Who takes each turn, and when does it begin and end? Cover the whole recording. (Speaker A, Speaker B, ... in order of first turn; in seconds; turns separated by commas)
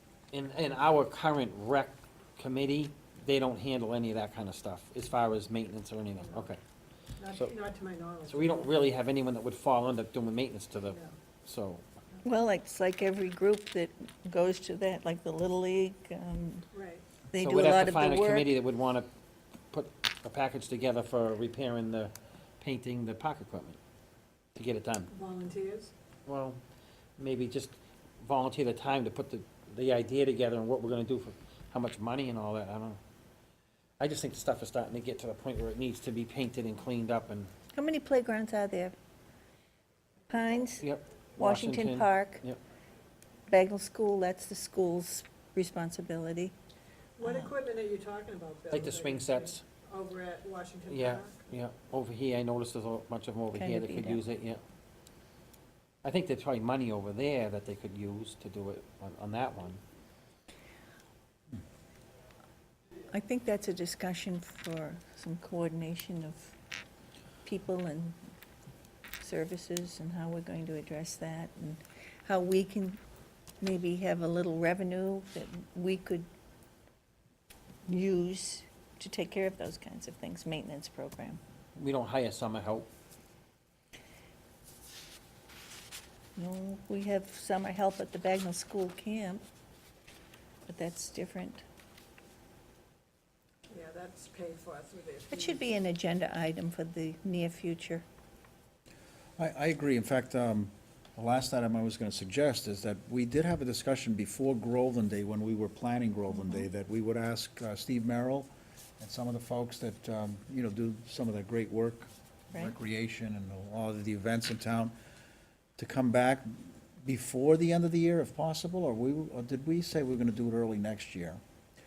Speaker A: 0.3-6.6, Speaker B: 7.2-8.7, Speaker A: 8.3-11.8, Speaker B: 10.9-11.1, Speaker C: 12.2-16.6, Speaker B: 16.7-17.0, Speaker C: 17.3-18.6, Speaker A: 17.4-19.1, Speaker A: 19.7-23.8, Speaker A: 24.5-25.1, Speaker B: 25.1-25.9, Speaker A: 26.2-26.6, Speaker A: 27.2-33.0, Speaker A: 34.0-37.5, Speaker C: 37.7-38.9, Speaker C: 40.3-40.8, Speaker A: 40.8-42.6, Speaker C: 41.4-42.4, Speaker C: 43.5-46.5, Speaker B: 47.2-51.4, Speaker C: 47.2-47.5, Speaker A: 48.7-49.6, Speaker A: 50.9-54.6, Speaker C: 53.5-54.2, Speaker A: 56.0-59.8, Speaker C: 63.1-66.5, Speaker C: 67.4-68.2, Speaker C: 69.2-73.0, Speaker C: 73.6-76.3, Speaker C: 77.8-81.4, Speaker A: 81.7-82.9, Speaker C: 86.3-89.4, Speaker C: 90.7-91.6, Speaker B: 93.7-95.6, Speaker C: 95.3-98.0, Speaker D: 99.4-114.9, Speaker C: 106.3-106.7, Speaker D: 115.8-121.4